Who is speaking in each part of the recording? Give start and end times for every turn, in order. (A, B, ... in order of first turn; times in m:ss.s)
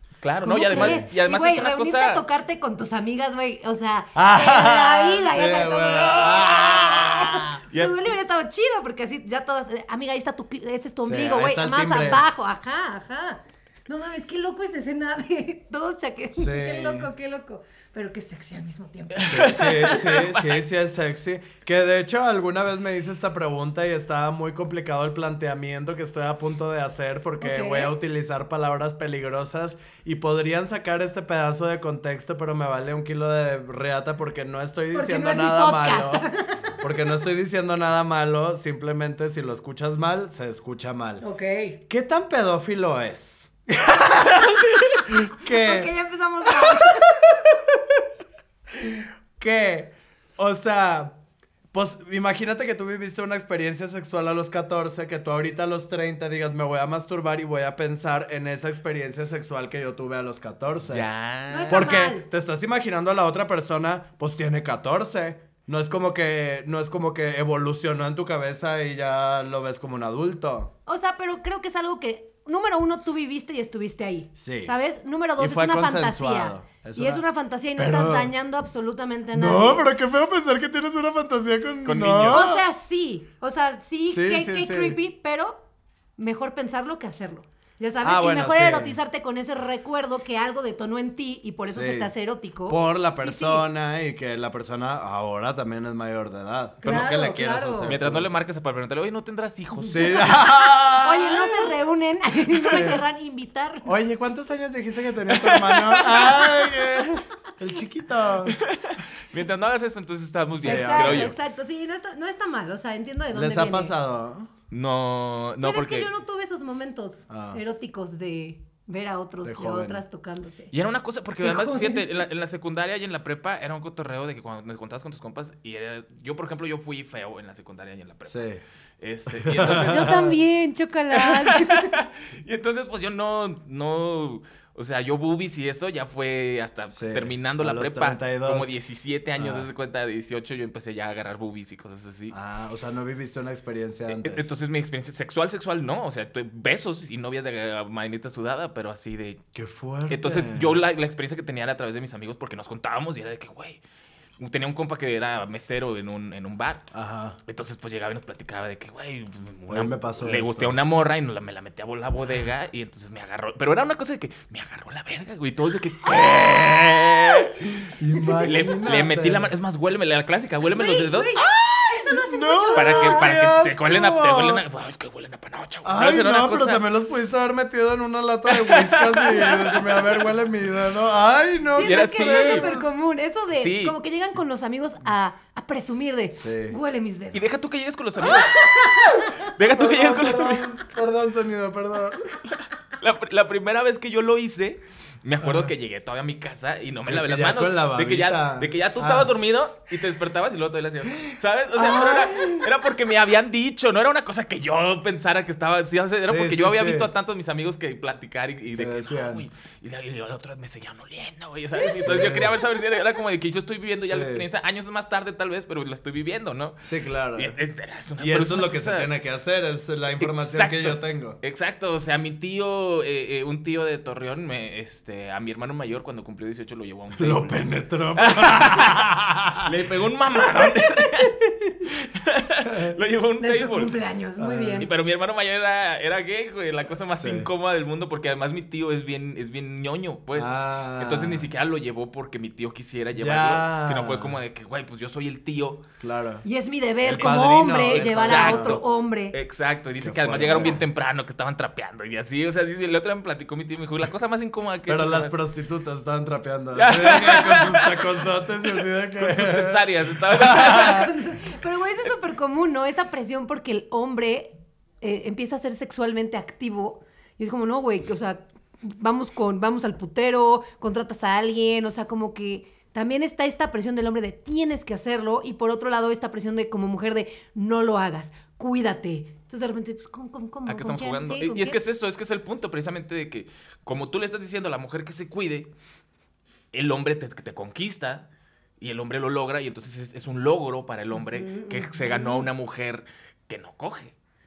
0:00.2-0:02.2 A
0:00.4-0:19.5 B
0:00.7-0:01.1 C
0:04.2-0:07.6 C
0:07.7-0:08.1 A
0:11.0-0:12.2 C
0:16.4-0:17.1 C
0:19.2-0:20.6 A
0:19.2-0:36.3 C
0:27.4-0:27.9 B
0:34.9-0:36.7 B
0:36.8-0:41.2 C
0:41.2-0:41.8 B
0:41.9-0:45.9 C
0:45.4-0:47.2 B
0:46.6-0:47.8 C
0:48.8-0:51.2 C
0:51.7-1:01.1 C
1:00.9-1:01.9 A
1:01.5-1:02.3 B
1:01.7-1:10.7 C
1:10.9-1:19.8 B
1:14.4-1:14.7 C
1:15.4-1:17.2 C
1:17.8-1:18.3 C
1:19.4-1:22.6 C
1:21.8-1:22.5 A
1:22.3-1:25.6 B
1:24.1-1:25.0 C
1:26.2-1:33.6 B
1:28.0-1:29.0 C
1:31.7-1:32.1 C
1:32.7-1:38.3 C
1:36.8-1:37.1 A
1:36.8-1:37.9 B
1:37.8-1:40.4 A
1:39.8-1:41.7 C
1:40.1-1:43.9 B
1:42.5-1:43.0 C
1:43.8-1:48.6 C
1:45.3-1:46.7 A
1:48.5-1:51.3 A
1:50.6-1:51.3 C
1:50.6-1:53.9 B
1:53.3-1:54.5 C
1:54.7-1:56.1 A
1:55.6-2:00.7 B
1:57.3-1:57.6 C
1:59.4-2:00.0 C
2:00.7-2:08.4 A
2:01.4-2:02.0 B
2:08.3-2:08.6 C
2:09.0-2:10.3 A
2:09.4-2:10.3 C
2:09.6-2:11.9 B
2:11.1-2:22.4 A
2:16.9-2:18.8 C
2:19.4-2:19.7 C
2:22.3-2:24.5 C
2:24.1-2:29.4 A
2:29.6-2:30.8 C
2:30.1-2:33.8 A
2:34.4-2:36.8 A
2:36.9-2:37.4 C
2:37.5-2:47.7 A
2:39.7-2:40.8 C
2:48.0-2:49.5 C
2:48.4-2:51.4 A
2:50.7-2:53.3 B
2:51.5-2:54.6 C
2:52.7-2:56.8 A
2:55.8-3:02.8 C
2:58.5-3:00.2 A
3:01.8-3:07.5 B
3:01.8-3:02.7 A
3:03.6-3:04.0 A
3:06.4-3:06.8 C
3:07.3-3:10.7 A
3:08.2-3:09.3 B
3:09.8-3:12.3 C
3:12.5-3:39.1 A
3:15.4-3:15.7 C
3:17.1-3:19.3 C
3:21.8-3:22.6 C
3:26.2-3:27.1 C
3:28.8-3:29.5 C
3:31.8-3:32.1 B
3:32.0-3:32.6 C
3:34.0-3:34.5 C
3:36.8-3:37.6 C
3:38.2-3:41.4 C
3:40.2-3:47.6 A
3:47.2-3:49.8 C
3:48.2-3:49.1 A
3:49.6-3:54.0 A
3:52.7-3:52.9 C
3:53.4-3:54.9 B
3:54.4-3:54.9 C
3:54.8-4:05.9 A
3:57.2-3:57.5 C
4:00.4-4:01.5 C
4:03.2-4:04.4 C
4:06.0-4:06.4 C
4:06.4-4:09.4 B
4:07.0-4:08.8 C
4:07.1-4:15.4 A
4:10.0-4:10.8 C
4:14.9-4:21.1 C
4:16.8-4:21.2 A
4:20.6-4:41.8 B
4:40.7-4:45.7 A
4:46.7-4:48.3 A
4:48.8-4:54.1 A
4:51.2-4:52.5 B